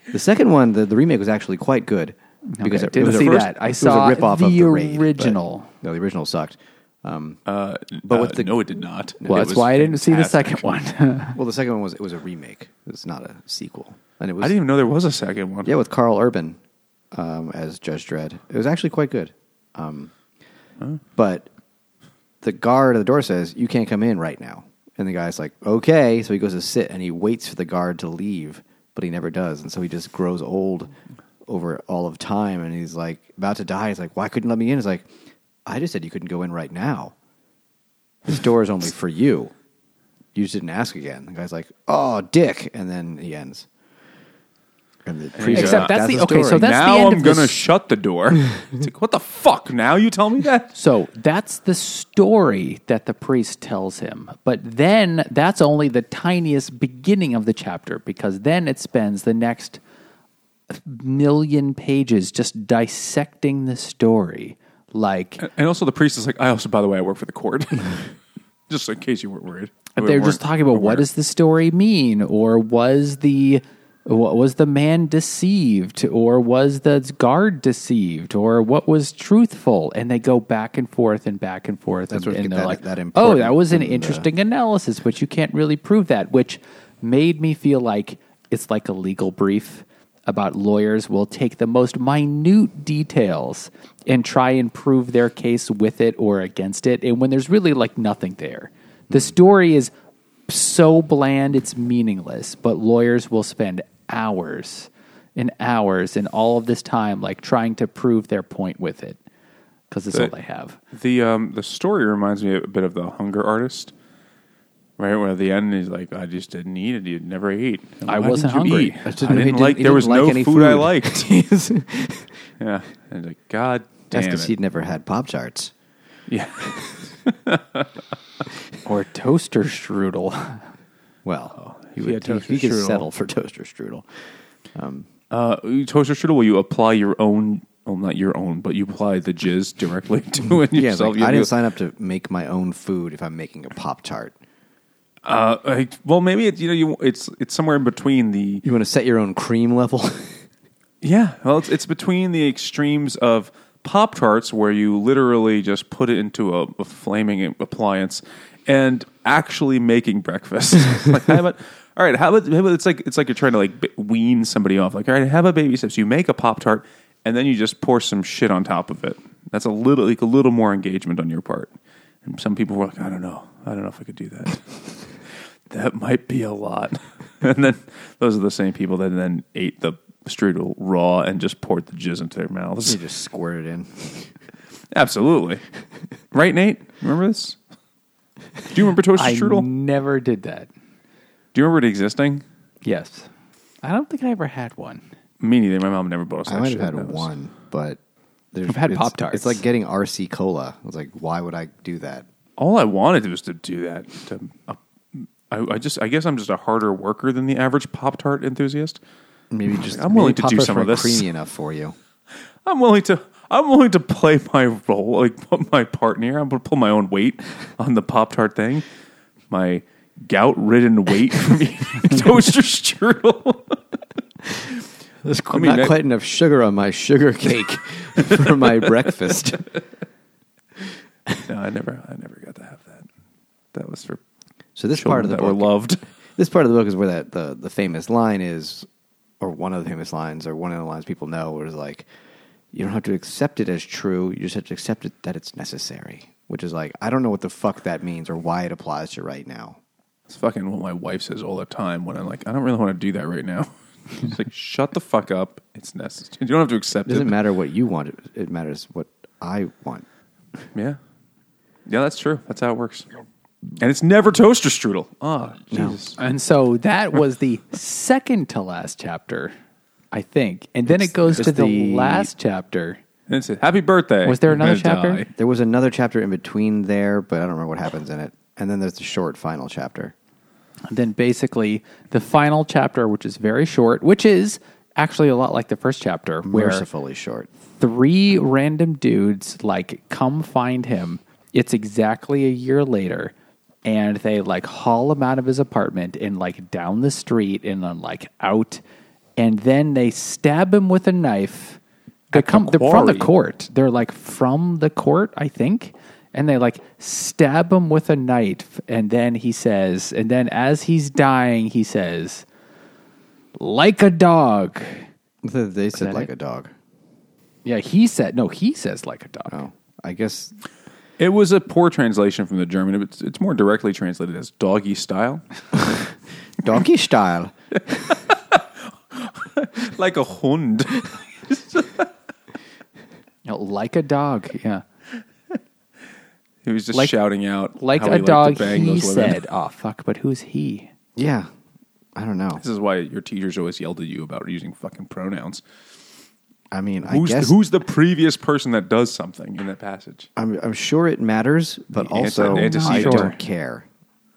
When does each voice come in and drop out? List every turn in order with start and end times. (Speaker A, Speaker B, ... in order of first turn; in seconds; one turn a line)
Speaker A: 0.1-7.4
Speaker B: 2.5-5.7
Speaker C: 3.0-3.5
Speaker C: 7.5-10.7
Speaker A: 8.0-8.6
Speaker A: 9.2-9.5
Speaker B: 9.3-11.4
Speaker A: 11.3-14.5
Speaker C: 14.4-15.7
Speaker A: 15.6-16.6
Speaker A: 17.1-20.1
Speaker A: 21.1-21.5
Speaker A: 22.4-30.9
Speaker A: 31.4-35.1
Speaker A: 35.7-37.1
Speaker A: 38.2-39.5
Speaker A: 40.3-43.7
Speaker A: 45.0-46.6
Speaker C: 45.4-50.7
Speaker B: 45.5-47.6
Speaker B: 50.7-59.8
Speaker B: 60.7-65.5
Speaker C: 65.4-68.1
Speaker C: 68.7-71.0
Speaker B: 69.9-99.9
Speaker A: 82.1-84.3
Speaker B: 100.5-109.2
Speaker B: 109.9-110.8
Speaker C: 110.9-113.9
Speaker C: 115.0-121.3
Speaker B: 118.1-119.3
Speaker A: 119.0-122.3
Speaker C: 122.6-124.5
Speaker A: 124.1-125.7
Speaker C: 126.3-128.0
Speaker B: 128.8-130.7
Speaker A: 131.2-134.1
Speaker C: 131.5-133.1
Speaker A: 134.7-135.1
Speaker C: 135.3-141.5
Speaker A: 140.7-144.3
Speaker C: 145.2-148.6
Speaker A: 148.6-150.5
Speaker C: 151.0-171.7
Speaker C: 172.2-183.0
Speaker A: 182.8-184.3
Speaker C: 184.9-185.6
Speaker C: 186.3-187.6
Speaker C: 188.6-189.7
Speaker B: 189.2-190.7
Speaker C: 191.5-192.4
Speaker B: 192.8-193.3
Speaker B: 193.8-195.0
Speaker C: 195.4-197.3
Speaker A: 196.4-198.0
Speaker A: 198.5-202.2
Speaker B: 198.7-199.6
Speaker C: 202.6-209.0
Speaker A: 209.5-211.9
Speaker C: 209.8-211.3
Speaker C: 212.6-218.8
Speaker C: 219.5-223.8
Speaker A: 225.2-229.7
Speaker C: 225.5-225.9
Speaker C: 228.2-229.4
Speaker C: 231.4-233.1
Speaker C: 233.7-234.2
Speaker A: 234.8-235.7
Speaker C: 234.9-236.0
Speaker A: 236.4-238.9
Speaker A: 239.4-242.1
Speaker A: 242.7-249.8
Speaker C: 250.3-257.4
Speaker A: 257.1-260.0
Speaker C: 261.9-263.1
Speaker C: 263.8-266.2
Speaker A: 265.7-266.0
Speaker B: 266.2-269.5
Speaker B: 270.1-273.0
Speaker A: 270.9-272.3
Speaker C: 273.3-275.3
Speaker B: 274.2-275.2
Speaker A: 275.3-280.1
Speaker B: 280.9-286.9
Speaker A: 286.5-287.5
Speaker B: 287.7-293.3
Speaker B: 293.8-298.8
Speaker B: 299.4-301.8
Speaker C: 302.3-303.3
Speaker B: 302.3-312.4
Speaker B: 313.6-315.1
Speaker A: 315.4-316.7
Speaker B: 315.9-316.3
Speaker B: 317.6-319.6
Speaker A: 319.5-320.6
Speaker C: 321.2-325.4
Speaker A: 325.7-328.1
Speaker C: 327.9-332.1
Speaker B: 333.4-334.8
Speaker C: 336.6-339.4
Speaker B: 337.8-340.9
Speaker A: 341.1-341.5
Speaker A: 342.1-342.6
Speaker C: 342.6-345.6
Speaker A: 346.7-347.5
Speaker C: 347.1-350.3
Speaker A: 350.4-353.9
Speaker C: 351.9-353.3
Speaker B: 352.4-353.4